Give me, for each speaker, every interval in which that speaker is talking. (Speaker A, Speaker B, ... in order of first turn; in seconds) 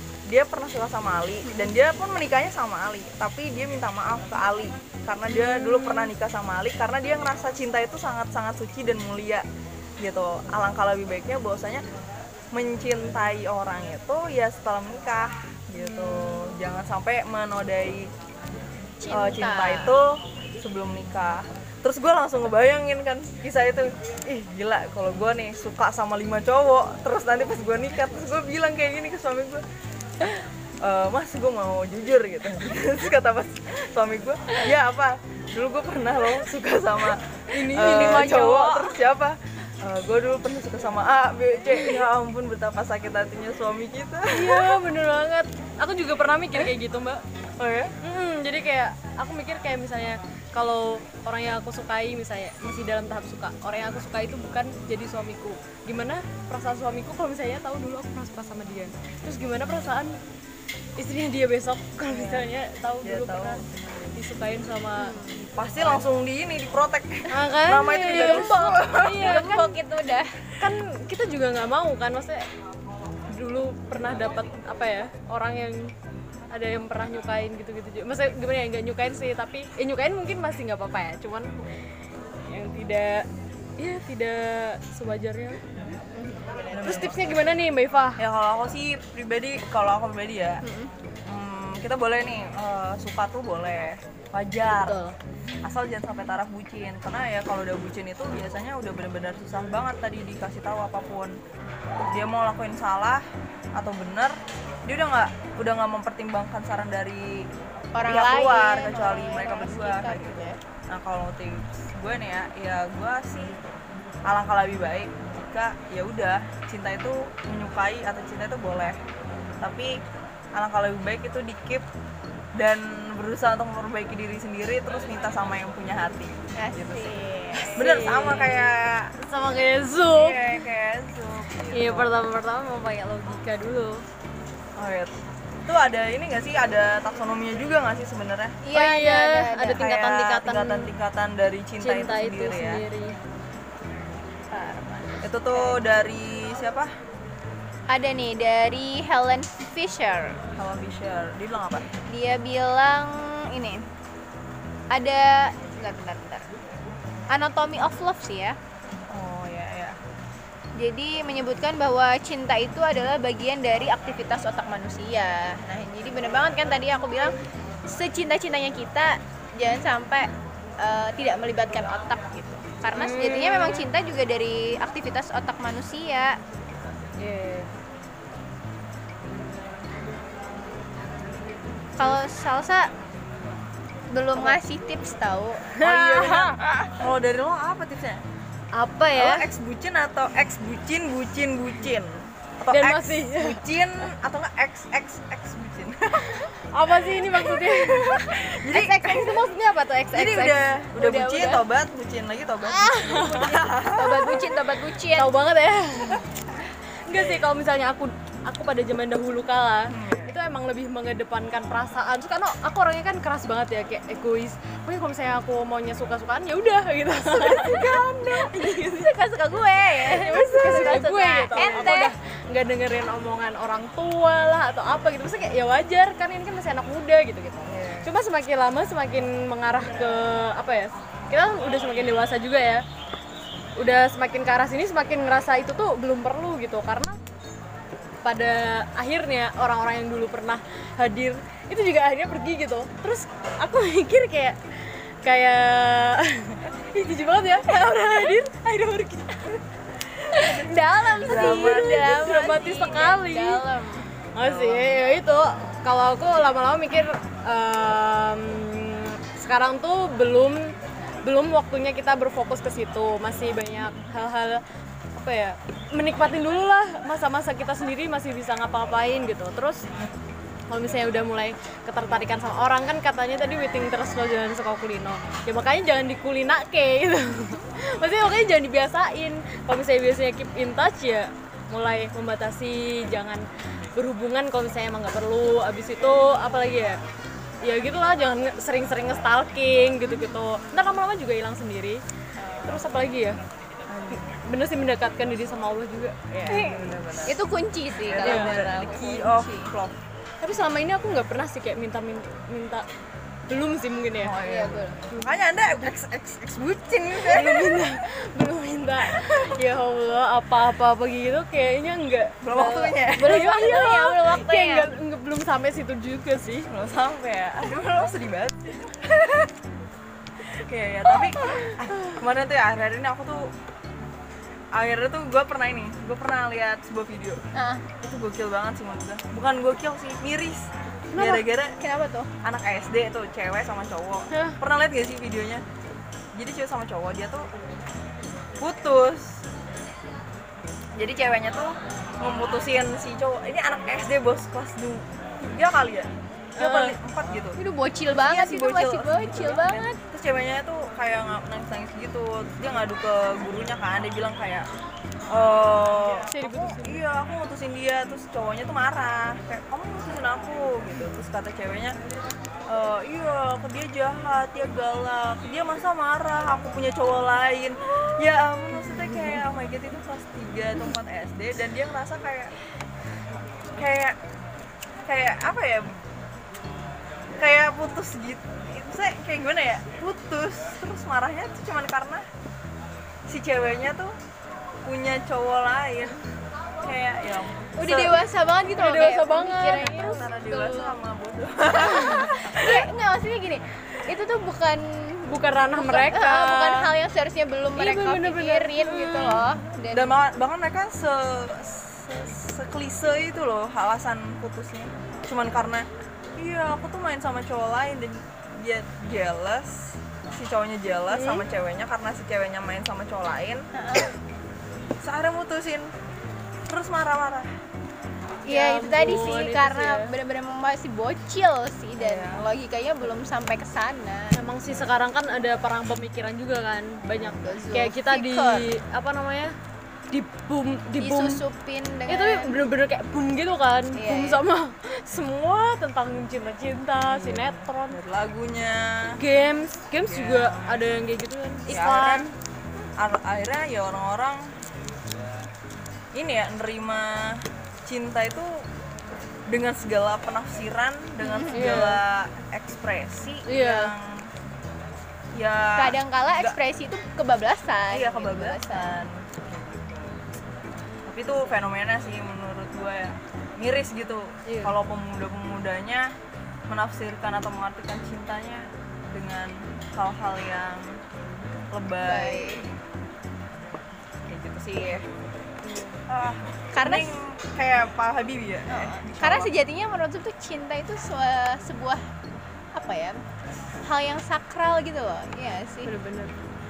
Speaker A: 0.3-9.4, 10.0-11.8, 12.5-18.1, 19.1-29.6, 30.8-44.8, 47.6-47.9, 62.1-62.5, 63.0-63.7, 65.5-69.4, 86.7-87.2, 88.2-90.6, 91.3-95.0, 95.6-101.3, 102.1-103.2, 103.8-107.5, 108.0-113.6, 114.3-119.0, 119.6-120.0, 120.6-121.8, 122.6-127.1, 127.7-129.1, 130.1-132.1, 134.8-138.5, 139.8-142.8, 145.2-146.9, 150.6-151.9, 159.1-160.0, 185.8-188.2, 189.1-196.5, 197.1-199.5, 200.1-204.7, 209.9-210.3, 220.3-221.1, 221.6-221.9, 227.7-228.1, 250.3-252.1, 254.4-255.0, 293.9-294.3, 296.5-297.4, 298.0-300.0, 304.2-308.0, 309.0-309.6, 312.4-313.4, 316.7-319.5, 320.5-323.5, 324.8-327.4, 328.0-331.8, 332.4-335.6, 336.3-337.5, 338.6-339.4, 341.0-347.6, 348.1-354.7, 355.3-361.9, 362.7-372.5, 373.8-374.2, 375.1-376.0, 377.4-382.2, 383.3-384.2, 384.8-386.2, 386.8-388.2, 389.8-392.9, 399.9-405.9, 406.4-413.6, 415.0-415.9, 416.7-417.5, 422.0-422.5, 437.1-439.2, 440.0-440.9, 441.7-442.3, 443.0-444.5, 446.1-448.6, 449.5-454.3, 455.4-456.6, 457.9-460.2, 461.1-466.1, 466.7-471.0, 471.7-472.7, 474.3-475.1, 476.1-479.5
Speaker B: 5.3-6.1, 15.8-16.6, 37.5-38.9, 41.7-42.0, 44.3-47.2, 48.0-60.1, 61.0-63.6, 64.1-65.2, 67.3-69.8, 70.6-72.5, 73.3-75.9, 76.5-81.5, 82.5-83.3, 83.8-85.6, 86.8-88.2, 127.6-130.6, 131.7-134.0, 138.7-140.9, 141.8-143.1, 172.9-173.9, 177.2-177.7, 185.8-186.9, 188.8-189.5, 192.7-193.6, 196.7-200.6, 202.6-203.6, 205.1-206.2, 207.1-219.1, 219.9-232.8, 233.8-237.2, 238.2-249.6, 250.3-253.6, 254.3-260.7, 261.2-264.6, 265.2-269.8, 270.7-287.0, 287.6-292.0, 292.6-293.4, 294.1-296.8, 298.2-298.6, 300.4-302.8, 303.5-304.4, 307.2-316.7, 331.1-331.4, 334.3-334.6, 346.6-346.9, 356.3-357.0, 388.7-390.2, 391.8-392.3, 395.3-396.9, 397.8-399.5, 418.5-420.1, 424.3-429.5, 430.1-431.4, 432.1-438.0, 439.2-442.3, 451.5-452.0, 453.5-453.9, 464.5-464.8, 475.6-476.0, 485.8-486.3
Speaker C: 19.0-20.0, 65.0-65.5, 68.1-70.3, 86.1-87.2, 90.6-90.9, 94.8-95.1, 108.0-110.5, 126.5-127.8, 138.6-139.8, 144.5-145.8, 147.9-150.4, 152.1-153.8, 154.9-156.4, 157.3-158.6, 160.8-167.3, 167.9-170.3, 170.8-176.4, 182.0-182.9, 184.1-186.4, 201.0-201.7, 203.9-205.3, 217.3-222.1, 250.4-254.1, 296.5-299.7, 304.4-305.0, 313.1-314.9, 327.5-327.8, 331.8-332.3, 347.6-350.0, 387.8-391.0, 392.5-400.2, 413.7-414.1, 418.5-424.4, 427.2-428.7, 431.0-432.6, 433.9-434.4, 451.2-451.8, 455.8-459.0, 461.2-461.6, 472.0-472.7, 476.7-477.1, 478.7-482.0, 482.8-483.2, 483.8-485.9